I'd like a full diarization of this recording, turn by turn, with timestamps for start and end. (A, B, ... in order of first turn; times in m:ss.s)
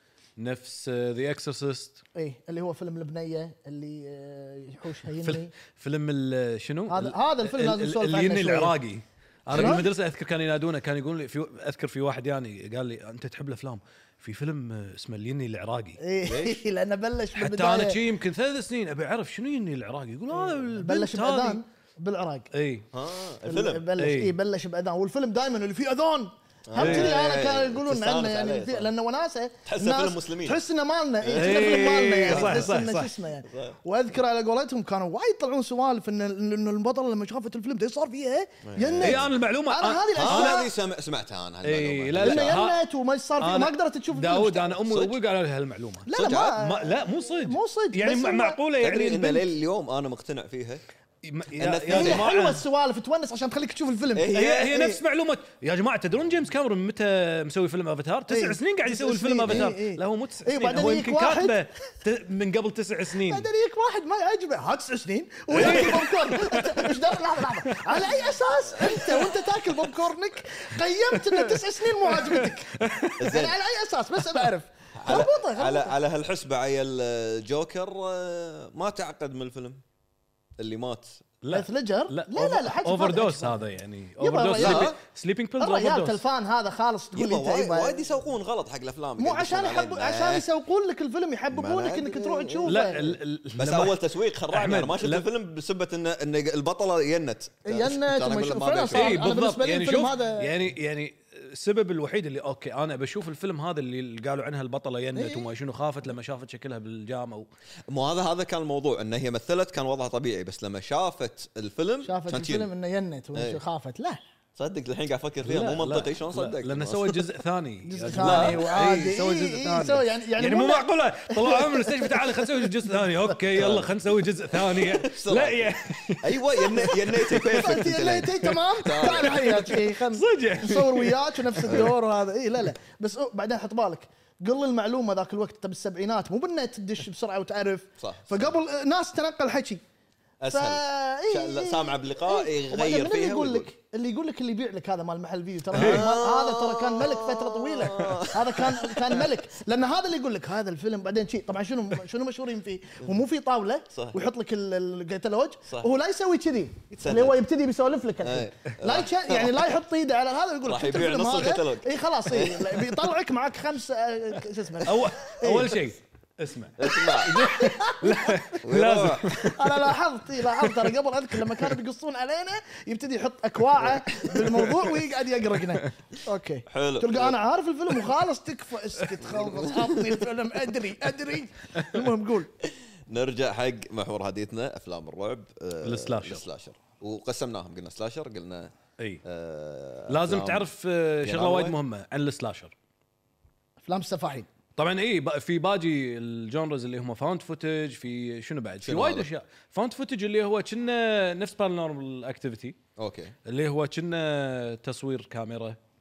0:00.4-0:02.0 A
0:02.2-0:05.5 B
0:05.2-0:16.0 A
0:06.9-0:08.7 B
0:09.5-0:09.8 C
0:09.5-0:09.8 B
0:16.0-0:18.0 B
0:16.2-0:16.6 C
0:17.4-0:21.6 A
0:20.7-0:22.5 B
0:22.5-0:22.9 A
0:22.9-0:23.9 C
0:23.4-0:40.7 B
0:24.0-0:24.4 A
0:26.7-0:28.9 C
0:26.8-0:27.1 A
0:29.6-0:30.6 C
0:31.2-0:32.8 C
0:31.4-0:33.2 A
0:33.5-0:33.8 C
0:38.6-0:39.3 C
0:39.0-0:40.6 A
0:40.2-0:42.6 C
0:41.6-0:42.8 A
0:42.2-0:44.8 B
0:43.4-0:49.5 A
0:44.8-0:45.2 C
0:46.1-0:48.6 B
0:46.1-0:46.6 C
0:48.8-0:50.8 C
0:51.2-0:52.6 A
0:51.6-0:52.3 C
0:51.9-0:55.0 B
0:54.2-0:54.9 C
0:54.3-1:03.5 A
0:58.3-1:01.6 B
1:03.2-1:16.0 B
1:05.5-1:08.2 A
1:08.8-1:09.5 A
1:11.1-1:13.3 A
1:13.2-1:13.6 C
1:14.9-1:19.8 C
1:20.6-1:21.2 C
1:21.4-1:26.2 A
1:21.5-1:23.7 B
1:24.2-1:24.9 B
1:24.6-1:25.0 C
1:25.6-1:28.0 B
1:27.1-1:30.4 C
1:29.2-1:33.1 B
1:31.5-1:39.2 C
1:32.7-1:35.3 A
1:37.6-1:40.5 B
1:38.9-1:47.5 A
1:45.2-1:45.5 B
1:47.9-1:52.7 C
1:52.0-1:54.2 B
1:53.4-1:53.6 C
1:54.6-1:57.3 C
1:55.4-2:07.7 A
1:57.9-2:03.1 B
1:58.1-1:58.7 C
2:03.5-2:09.6 C
2:07.5-2:19.8 B
2:09.2-2:11.9 A
2:11.7-2:11.9 C
2:18.0-2:18.5 C
2:20.4-2:23.7 C
2:20.5-2:45.8 B
2:25.7-2:26.0 A
2:25.7-2:29.4 C
2:33.9-2:34.2 C
2:36.9-2:37.4 C
2:38.2-2:39.7 C
2:40.6-2:43.1 C
2:44.9-2:49.9 A
2:46.8-2:47.5 C
2:46.8-2:48.5 B
2:48.6-2:49.4 C
2:49.4-3:02.5 B
2:50.6-2:50.9 A
2:53.8-2:54.7 C
2:56.7-2:57.4 C
2:59.2-3:00.2 C
3:02.6-3:08.7 C
3:05.8-3:06.4 A
3:09.2-3:10.7 C
3:10.1-3:12.7 A
3:11.2-3:11.8 C
3:13.8-3:14.5 B
3:14.8-3:22.8 A
3:18.8-3:19.3 C
3:23.0-3:23.4 C
3:23.4-3:25.8 A